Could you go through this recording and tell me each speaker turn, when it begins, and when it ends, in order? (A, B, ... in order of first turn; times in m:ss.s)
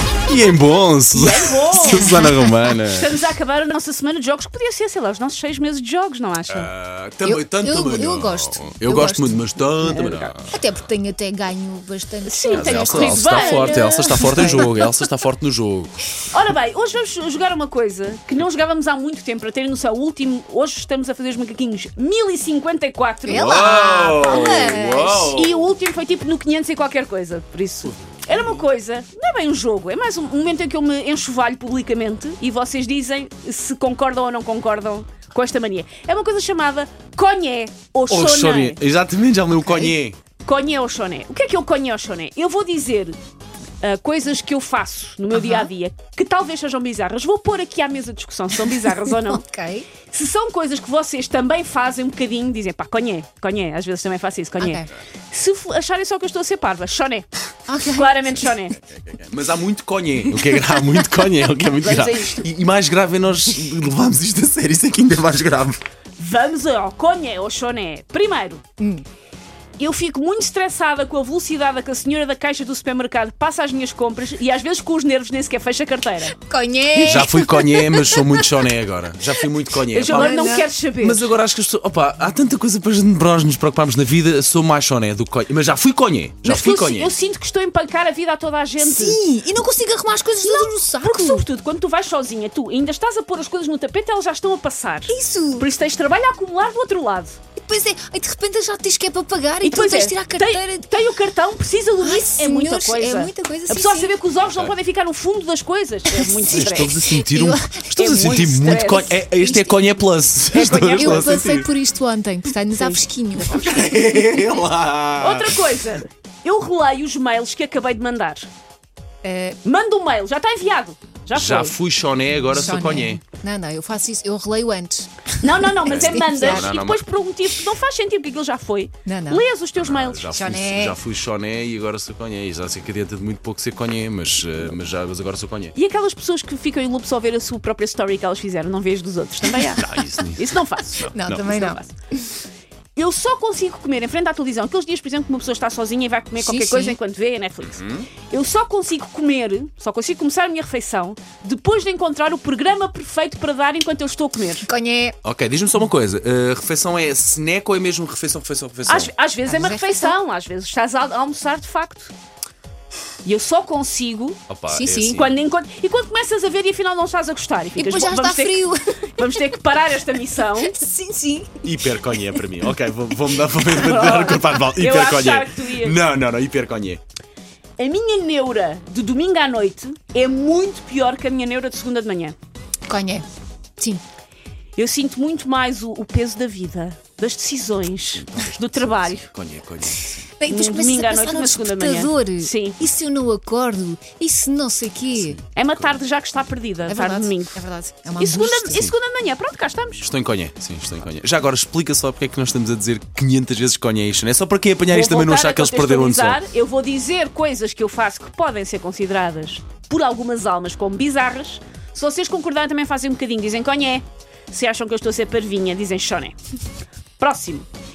0:00.3-0:03.0 A
0:01.1-0:02.3 B
0:02.9-0:06.7 B
0:06.5-0:10.6 A
0:07.2-0:14.7 C
0:12.2-0:14.6 B
0:12.5-0:16.0 A
0:16.3-0:23.6 B
0:23.2-0:25.4 C
0:23.3-0:25.5 A
0:25.3-0:38.8 B
0:38.1-0:40.2 A
0:40.4-0:43.2 B
0:43.8-0:49.4 B
0:45.3-0:45.7 C
0:49.1-0:49.9 C
0:50.1-0:57.3 B
0:54.6-0:54.9 C
0:57.7-0:58.4 C
0:57.9-0:58.8 B
0:58.9-1:05.8 A
1:01.8-1:02.4 B
1:06.2-1:08.6 B
1:08.8-1:09.0 C
1:09.8-1:16.4 B
1:16.3-1:18.7 C
1:16.9-1:27.1 A
1:19.9-1:21.3 B
1:20.1-1:20.7 C
1:26.4-1:29.2 B
1:28.8-1:31.4 C
1:30.4-1:37.4 B
1:35.1-1:35.7 C
1:37.6-1:40.9 C
1:39.6-1:47.0 B
1:42.0-1:44.1 C
1:46.1-1:47.8 C
1:46.5-1:51.7 A
1:47.9-1:49.9 B
1:50.5-1:51.4 B
1:50.9-1:53.9 C
1:53.5-1:55.6 A
1:55.2-1:58.5 B
1:59.2-1:59.6 C
1:59.6-2:01.8 B
2:01.3-2:03.2 A
2:02.5-2:06.7 C
2:05.4-2:10.4 B
2:05.8-2:07.0 A
2:09.0-2:09.4 C
2:09.8-2:15.8 A
2:10.3-2:11.0 C
2:15.7-2:21.9 B
2:19.8-2:21.8 A
2:21.1-2:22.3 C
2:23.0-2:34.6 B
2:26.4-2:27.0 C
2:27.6-2:28.1 A
2:34.6-2:35.2 C
2:35.2-2:39.1 A
2:38.9-2:42.1 B
2:39.4-2:40.2 C
2:43.2-2:44.4 B
2:44.5-2:45.3 A
2:44.7-2:45.2 C
2:45.0-2:50.8 B
2:47.8-2:49.5 C
2:50.4-2:52.2 C
2:51.6-2:57.0 A
2:53.7-2:56.0 B
2:57.8-3:02.4 B
3:02.8-3:03.2 C
3:04.8-3:09.3 B
3:08.1-3:10.2 A
3:10.4-3:15.4 C
3:10.5-3:12.8 B
3:15.2-3:16.0 A
3:15.5-3:17.6 B
3:16.8-3:18.9 C
3:18.2-3:20.1 B
3:20.0-3:26.4 A
3:24.9-3:36.4 B
3:37.2-3:37.7 B